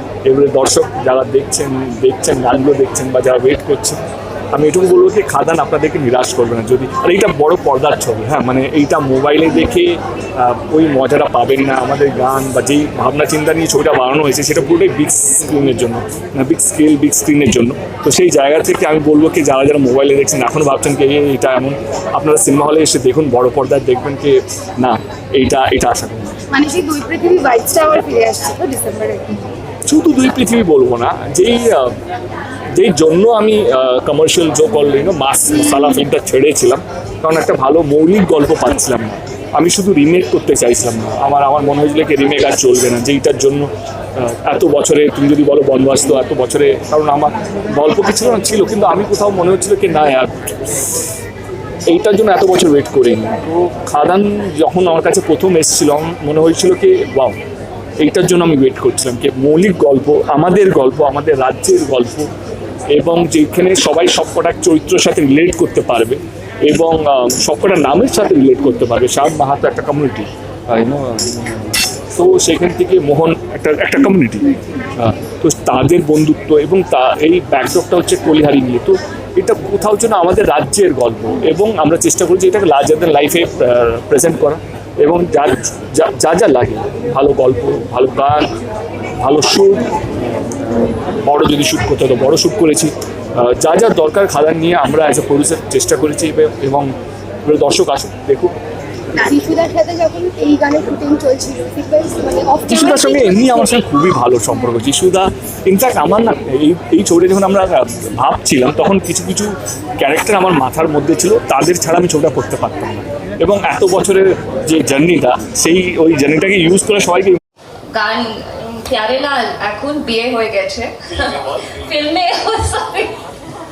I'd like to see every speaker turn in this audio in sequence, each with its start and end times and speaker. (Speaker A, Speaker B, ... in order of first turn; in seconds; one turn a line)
Speaker A: 0.3-4.0
Speaker A: 4.5-26.4
Speaker B: 26.5-29.4
Speaker A: 29.9-31.9
Speaker A: 32.7-50.5
Speaker A: 51.9-57.4
Speaker A: 58.0-62.3
Speaker A: 62.9-88.5
Speaker A: 89.2-89.9
Speaker A: 91.2-96.9
Speaker A: 97.4-98.5
Speaker B: 99.2-103.6
Speaker A: 102.7-117.4
Speaker C: 117.9-123.2